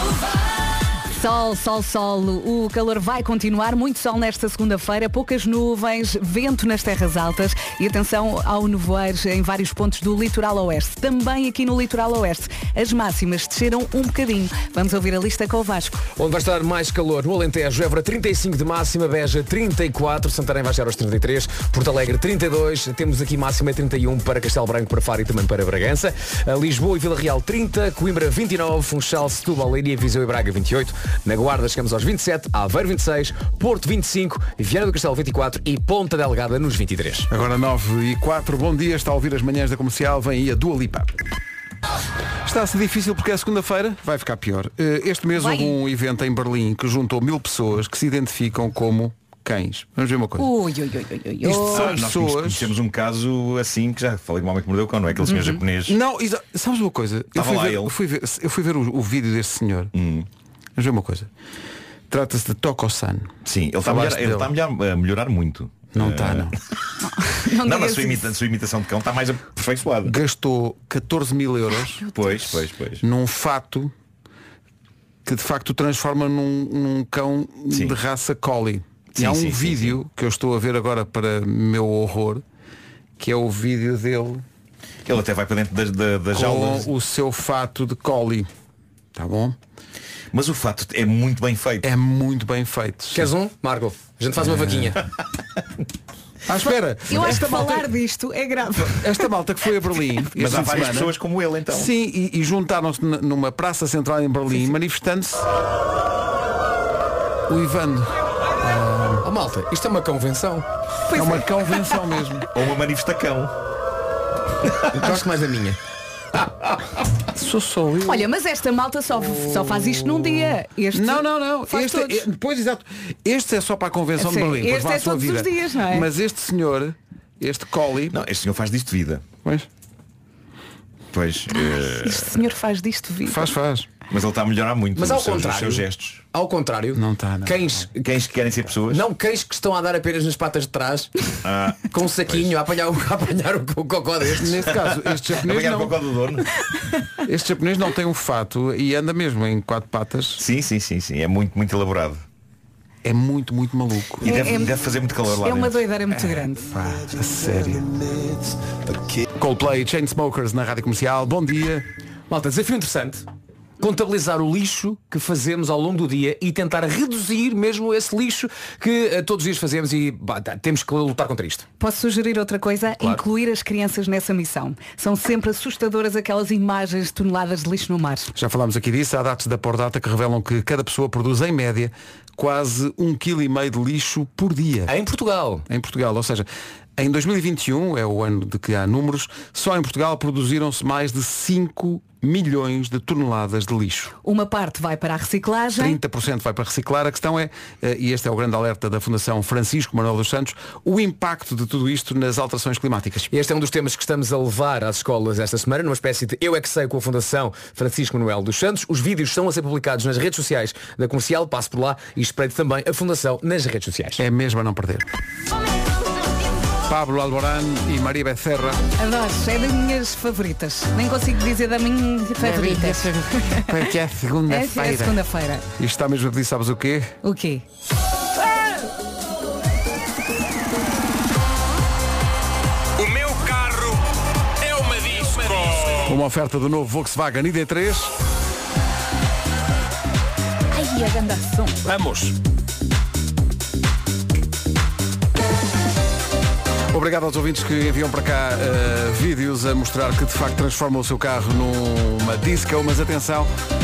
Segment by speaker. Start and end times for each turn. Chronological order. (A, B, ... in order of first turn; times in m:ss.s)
0:01.1-0:16.1 A
0:16.2-0:37.3 B
0:37.3-0:41.2 C
0:42.4-0:50.5 C
0:45.4-0:45.7 A
0:50.4-0:52.0 A
0:51.4-0:52.7 C
0:51.7-0:56.0 D
0:55.3-0:55.6 A
0:55.9-0:59.9 C
0:57.4-0:57.9 D
0:59.9-1:00.3 D
1:00.8-1:01.3 C
1:02.1-1:03.3 C
1:03.4-1:06.6 D
1:03.8-1:04.5 C
1:05.9-1:06.6 C
1:07.0-1:08.3 A
1:07.6-1:10.2 D
1:10.0-1:12.3 C
1:12.1-1:13.0 D
1:13.0-1:13.9 C
1:15.2-1:22.4 C
1:17.7-1:18.0 D
1:19.2-1:20.0 D
1:23.2-1:24.4 C
1:25.1-1:26.9 D
1:26.3-1:28.5 C
1:29.1-1:29.6 C
1:30.3-1:31.9 D
1:31.8-1:33.3 C
1:33.1-1:35.0 B
1:34.5-1:34.8 C
1:36.5-1:37.9 C
1:37.1-1:39.3 A
1:38.8-1:41.2 C
1:40.4-1:41.9 D
1:41.7-1:45.5 C
1:47.5-1:49.2 C
1:49.2-1:50.7 B
1:51.1-1:52.0 A
1:51.1-1:52.5 C
1:52.5-1:53.5 D
1:54.9-1:55.8 B
1:57.4-1:58.3 C
1:58.0-2:02.3 A
1:59.6-2:08.2 C
2:04.2-2:06.1 A
2:08.1-2:09.3 D
2:09.4-2:09.7 C
2:11.1-2:12.3 D
2:11.5-2:13.5 A
2:13.3-2:13.9 C
2:14.1-2:16.2 D
2:15.0-2:18.0 B
2:17.0-2:17.7 C
2:18.0-2:19.1 D
2:18.9-2:21.3 B
2:21.4-2:22.6 D
2:21.8-2:24.7 B
2:24.4-2:26.0 C
2:24.9-2:26.5 D
2:27.2-2:30.4 C
2:30.4-2:32.2 D
2:33.0-2:34.4 C
2:34.2-2:35.9 D
2:34.2-2:34.8 A
2:35.3-2:36.7 A
2:36.1-2:38.0 C
2:39.4-2:41.8 C
2:42.3-2:43.3 B
2:43.8-2:51.6 B
2:51.8-2:58.3 A
2:58.4-3:04.9 C
3:04.9-3:05.7 B
3:05.7-3:14.2 C
3:14.2-3:16.0 A
3:15.8-3:23.3 C
3:23.3-3:34.2 B
3:34.2-3:35.1 C
3:36.9-3:38.8 C
3:39.0-3:43.8 A
3:42.4-3:45.2 C
3:44.5-3:45.7 A
3:45.8-3:47.2 C
3:47.2-3:47.6 A
3:53.0-3:54.0 E
3:54.6-3:56.1 E
3:56.1-3:58.1 C
4:00.7-4:01.8 A
4:01.8-4:02.4 C
4:06.9-4:13.5 C